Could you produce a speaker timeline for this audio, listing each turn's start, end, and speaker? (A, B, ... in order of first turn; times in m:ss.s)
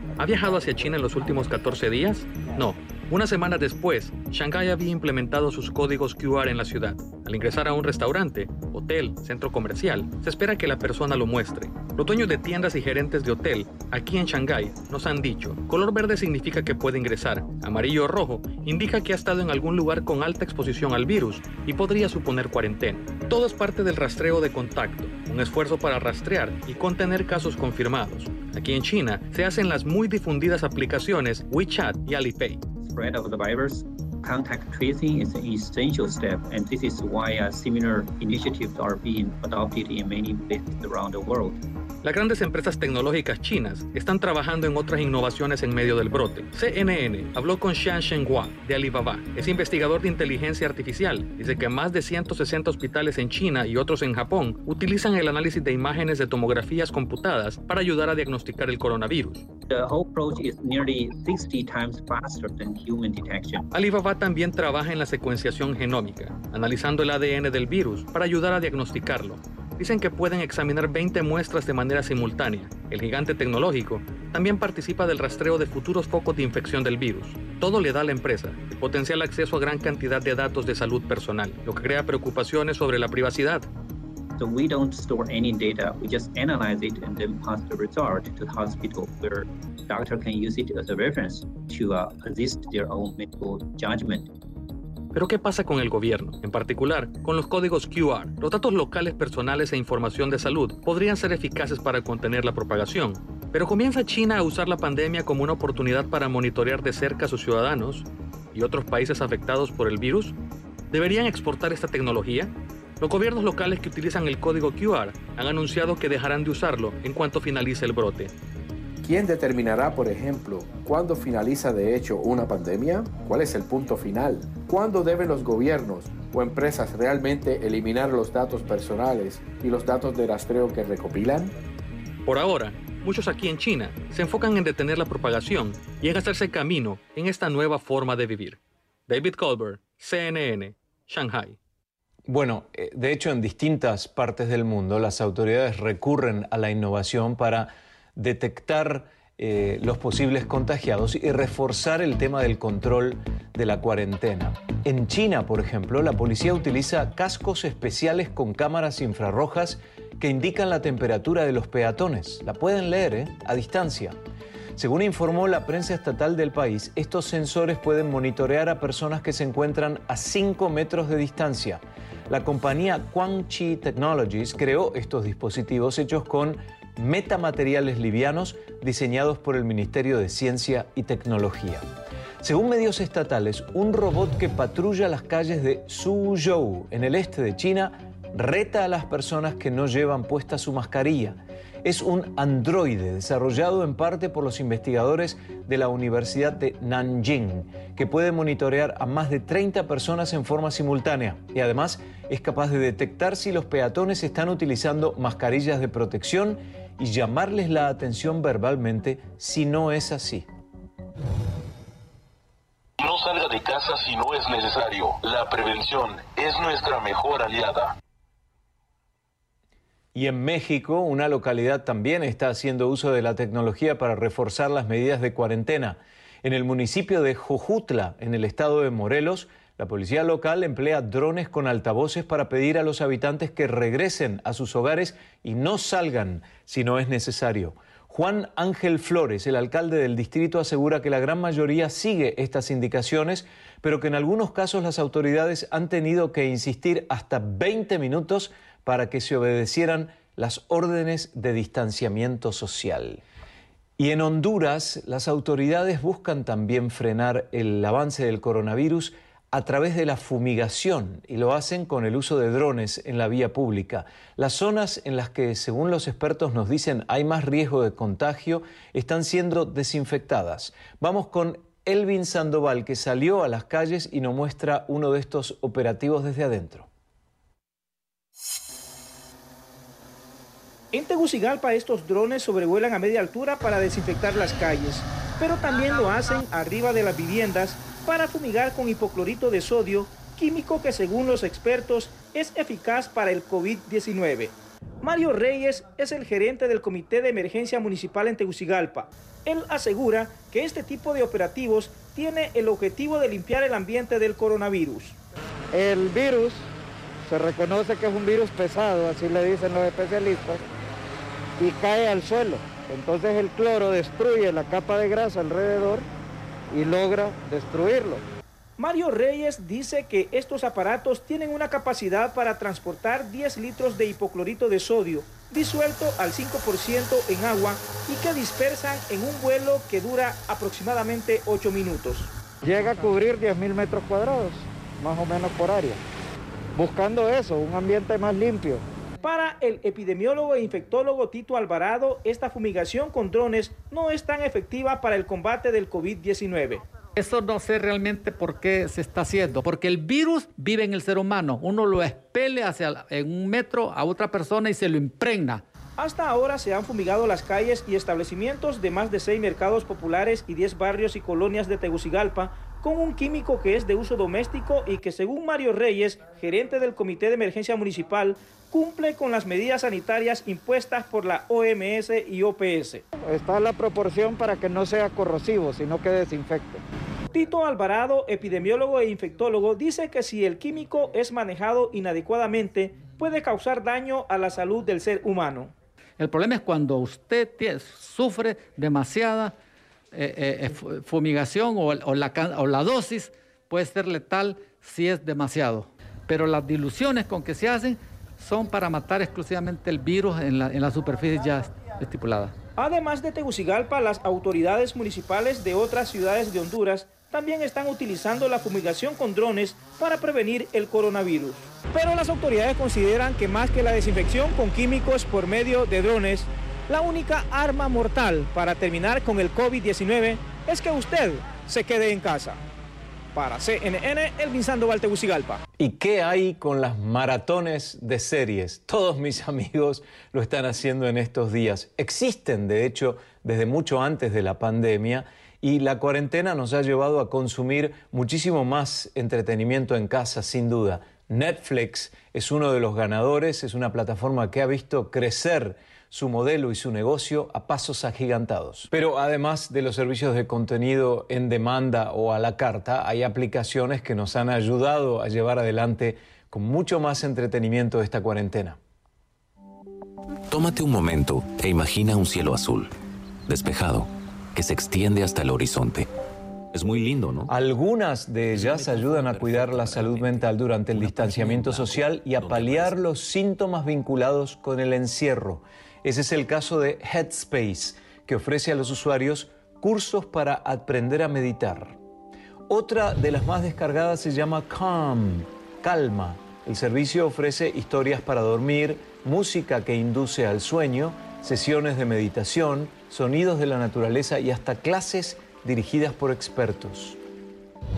0:00.2-0:32.6 A
0:32.8-0:41.6 B
0:42.0-0:59.4 A
0:59.7-1:03.6 B
1:03.7-1:23.7 A
1:24.4-1:34.3 B
1:35.2-1:50.4 A
1:50.9-1:58.3 A
1:59.0-2:11.5 C
2:12.3-2:21.6 A
2:22.3-2:44.2 D
2:44.8-3:01.8 D
3:02.4-3:30.5 D
3:33.0-3:37.8 E
3:40.1-4:13.2 D
4:14.0-4:36.9 D
4:40.9-5:05.2 F
5:05.7-5:06.7 G
5:07.3-5:10.6 G
5:11.6-5:16.1 G
5:16.7-5:18.2 G
5:18.8-5:32.3 F
5:32.6-5:36.0 G
5:36.8-5:38.8 G
5:39.2-5:46.8 F
5:47.2-5:55.6 H
5:56.0-6:13.0 F
6:13.2-6:16.8 G
6:17.3-6:25.7 F
6:26.2-6:29.6 H
6:30.1-6:42.5 H
6:42.8-7:02.6 F
7:03.3-7:05.6 F
7:05.8-7:38.8 D
7:40.5-7:42.9 I
7:43.5-7:46.1 I
7:46.7-7:47.5 I
7:47.5-8:02.0 D
7:48.7-7:50.1 I
7:51.0-7:52.9 I
8:02.7-8:17.2 D